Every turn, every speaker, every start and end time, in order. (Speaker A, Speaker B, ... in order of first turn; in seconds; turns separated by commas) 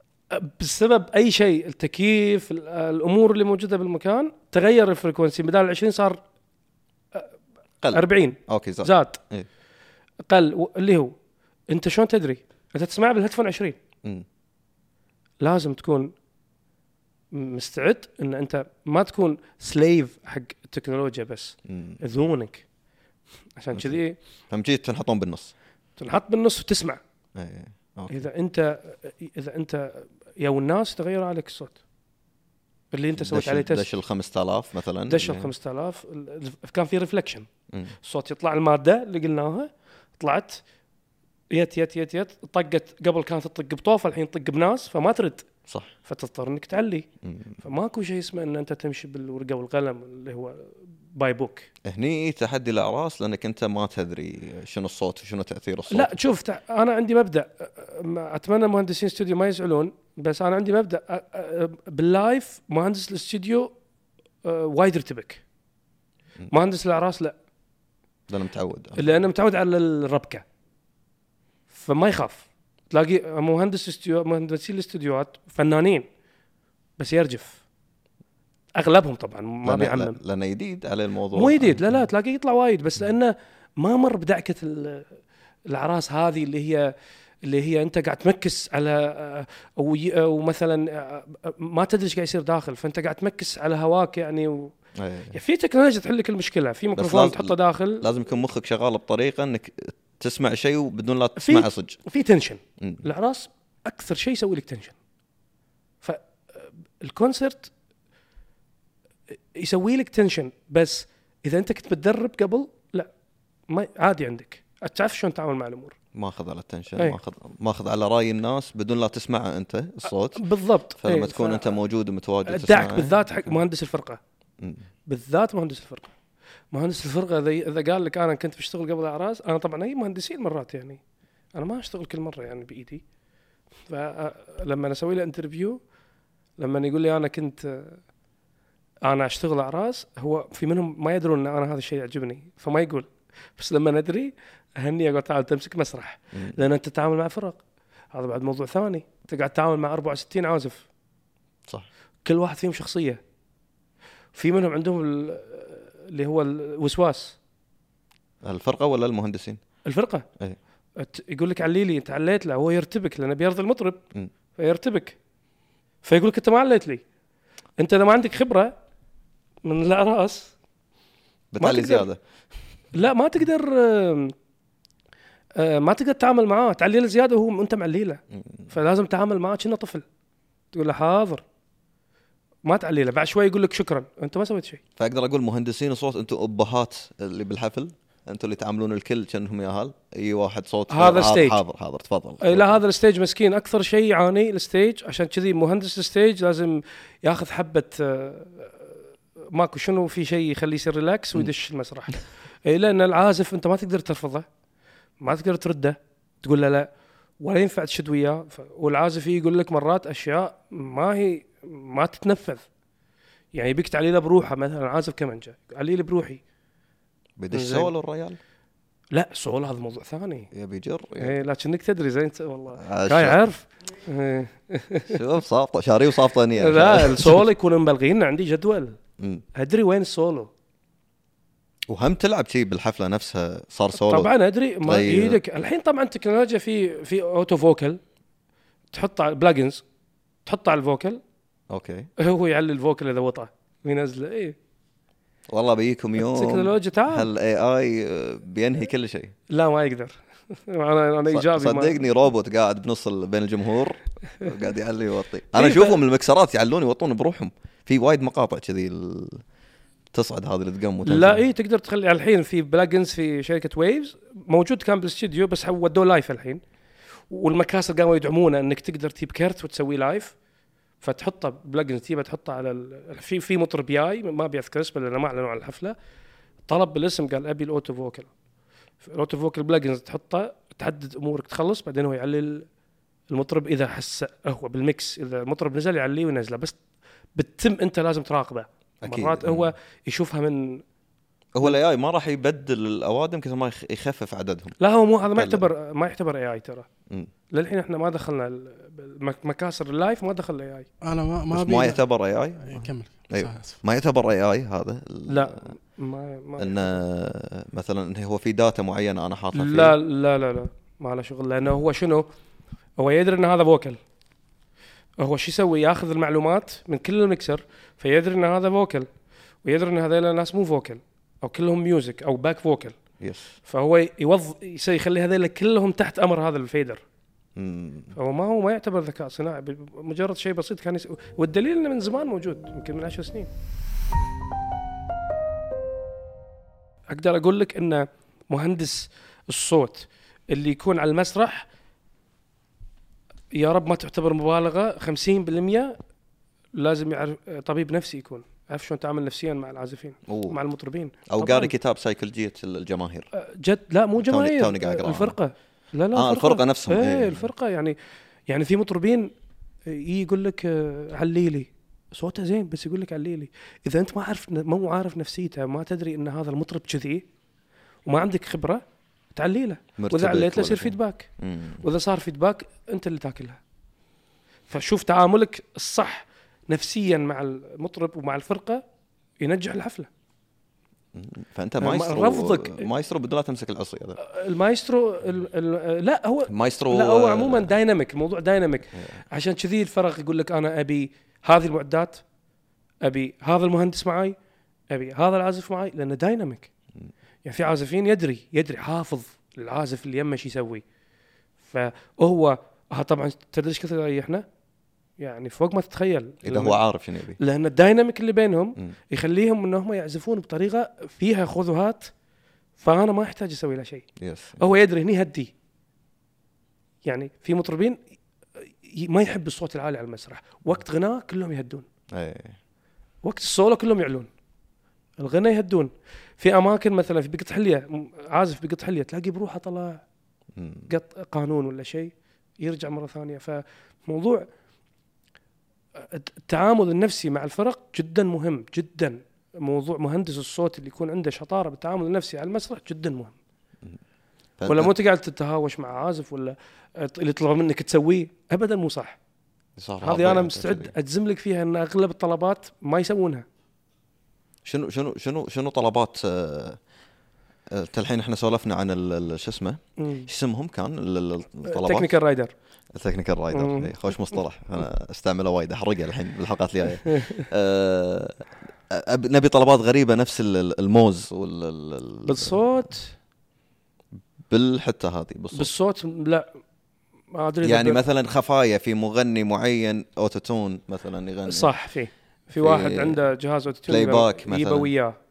Speaker A: 0.3-6.2, Speaker B: 7.8-9.5, Speaker A: 7.9-9.2, Speaker A: 10.3-11.1, Speaker A: 11.7-13.8, Speaker A: 15.4-16.1, Speaker A: 17.3-22.6, Speaker B: 21.7-22.0, Speaker A: 23.6-24.2, Speaker B: 23.7-24.0, Speaker B: 24.5-25.5, Speaker A: 26.0-27.0, Speaker B: 27.4-28.3, Speaker A: 28.1-31.8, Speaker A: 32.9-33.9, Speaker B: 33.2-35.5, Speaker A: 35.1-40.6, Speaker A: 41.5-45.5, Speaker A: 46.0-47.1, Speaker B: 47.2-47.6, Speaker A: 47.6-51.7, Speaker B: 51.9-56.1, Speaker A: 55.9-63.7, Speaker A: 64.4-65.4, Speaker A: 66.5-67.3, Speaker B: 68.3-69.2, Speaker A: 69.0-70.4, Speaker A: 71.7-76.1, Speaker A: 77.0-77.6, Speaker A: 78.8-80.2, Speaker B: 79.7-82.0, Speaker A: 81.3-85.1, Speaker A: 85.7-86.9, Speaker A: 87.4-94.7, Speaker B: 95.0-95.4, Speaker A: 95.3-98.1, Speaker B: 97.0-102.0, Speaker A: 101.4-105.0, Speaker A: 106.0-107.7, Speaker A: 109.5-113.1, Speaker A: 113.7-116.0, Speaker B: 116.1-123.6, Speaker A: 120.3-121.8, Speaker A: 122.5-124.2, Speaker B: 124.6-124.9, Speaker A: 125.1-126.1, Speaker A: 126.7-131.0, Speaker A: 131.5-133.0, Speaker A: 133.9-135.8, Speaker A: 136.6-138.0, Speaker A: 139.0-147.6, Speaker B: 146.3-146.6, Speaker A: 148.1-150.9, Speaker A: 152.2-153.2, Speaker A: 154.3-157.4, Speaker B: 158.4-159.6, Speaker A: 159.8-160.3, Speaker A: 161.0-164.0, Speaker A: 164.6-165.2, Speaker A: 166.0-167.0, Speaker A: 167.8-168.7, Speaker A: 169.7-170.5, Speaker B: 171.5-172.2, Speaker A: 171.6-172.1, Speaker A: 172.9-174.3, Speaker A: 175.6-180.1, Speaker B: 178.3-178.7, Speaker A: 180.7-181.4, Speaker A: 182.7-184.8, Speaker B: 185.0-192.8, Speaker A: 190.9-191.6, Speaker A: 192.4-199.0, Speaker A: 199.5-204.5, Speaker A: 205.2-206.9, Speaker A: 207.4-212.7, Speaker A: 213.5-216.4, Speaker B: 217.4-218.4, Speaker A: 217.5-217.9, Speaker A: 219.1-220.5, Speaker B: 220.5-221.4, Speaker A: 221.2-225.2, Speaker B: 222.8-223.4, Speaker B: 225.1-227.5, Speaker A: 226.6-229.0, Speaker B: 229.2-229.4, Speaker A: 229.6-230.5, Speaker B: 231.9-234.3, Speaker A: 233.9-238.0, Speaker B: 234.8-235.4, Speaker A: 238.9-239.8, Speaker A: 240.5-241.2, Speaker B: 241.7-242.1, Speaker A: 242.2-244.6, Speaker B: 245.5-249.3, Speaker A: 246.2-247.3, Speaker A: 249.5-252.0, Speaker B: 251.3-259.4, Speaker A: 255.5-256.0, Speaker B: 260.1-261.4, Speaker A: 261.0-266.6, Speaker A: 267.3-270.4, Speaker A: 271.0-276.0, Speaker A: 276.7-278.3, Speaker A: 279.0-282.7, Speaker A: 283.3-286.8, Speaker A: 287.4-290.8, Speaker B: 289.0-289.7, Speaker B: 291.6-294.8, Speaker A: 294.8-296.9, Speaker B: 295.4-295.7, Speaker A: 297.5-300.9, Speaker C: 301.0-302.0, Speaker B: 301.5-305.7, Speaker C: 302.6-303.8, Speaker A: 305.3-307.0, Speaker B: 306.6-310.0, Speaker A: 309.5-312.3, Speaker A: 313.0-314.0, Speaker A: 315.2-319.1, Speaker A: 319.6-323.0, Speaker B: 323.2-323.6, Speaker A: 323.7-327.0, Speaker B: 327.6-328.1, Speaker A: 328.1-333.5, Speaker A: 337.1-341.7, Speaker A: 343.5-346.0, Speaker A: 346.8-351.7, Speaker B: 350.3-350.6, Speaker B: 351.3-353.3, Speaker A: 353.3-358.0, Speaker B: 354.2-355.4, Speaker B: 356.1-357.5, Speaker A: 358.5-359.3, Speaker A: 359.9-367.3, Speaker A: 368.1-368.8, Speaker A: 369.3-371.3, Speaker B: 370.0-371.8, Speaker A: 371.8-373.6, Speaker A: 374.7-378.8, Speaker A: 379.4-380.1, Speaker B: 381.1-384.2, Speaker A: 381.8-382.9, Speaker A: 384.2-392.2, Speaker B: 386.5-387.7, Speaker B: 388.9-389.2, Speaker A: 393.0-394.4, Speaker A: 394.9-396.7, Speaker A: 397.4-400.8, Speaker A: 401.6-404.5, Speaker A: 405.2-406.8, Speaker B: 406.4-407.4, Speaker A: 407.4-412.1, Speaker A: 412.8-414.1, Speaker B: 414.2-414.6, Speaker A: 414.6-415.5, Speaker A: 417.1-418.0, Speaker A: 418.6-421.9, Speaker B: 422.1-422.6, Speaker A: 423.2-424.3, Speaker A: 425.2-430.0, Speaker B: 430.6-430.9, Speaker A: 430.9-434.5, Speaker A: 436.0-443.4, Speaker B: 444.6-444.9, Speaker A: 444.7-449.2, Speaker B: 449.8-450.9, Speaker A: 450.0-453.4, Speaker B: 454.6-456.8, Speaker B: 457.7-462.1, Speaker A: 460.0-460.3, Speaker A: 461.7-462.5, Speaker B: 462.9-472.6, Speaker A: 463.5-464.0, Speaker A: 467.1-467.5, Speaker A: 472.2-473.1, Speaker B: 474.5-475.7, Speaker A: 475.5-476.5, Speaker A: 477.3-478.0, Speaker B: 477.6-481.7, Speaker A: 481.5-485.2, Speaker B: 482.6-483.2, Speaker B: 483.9-484.9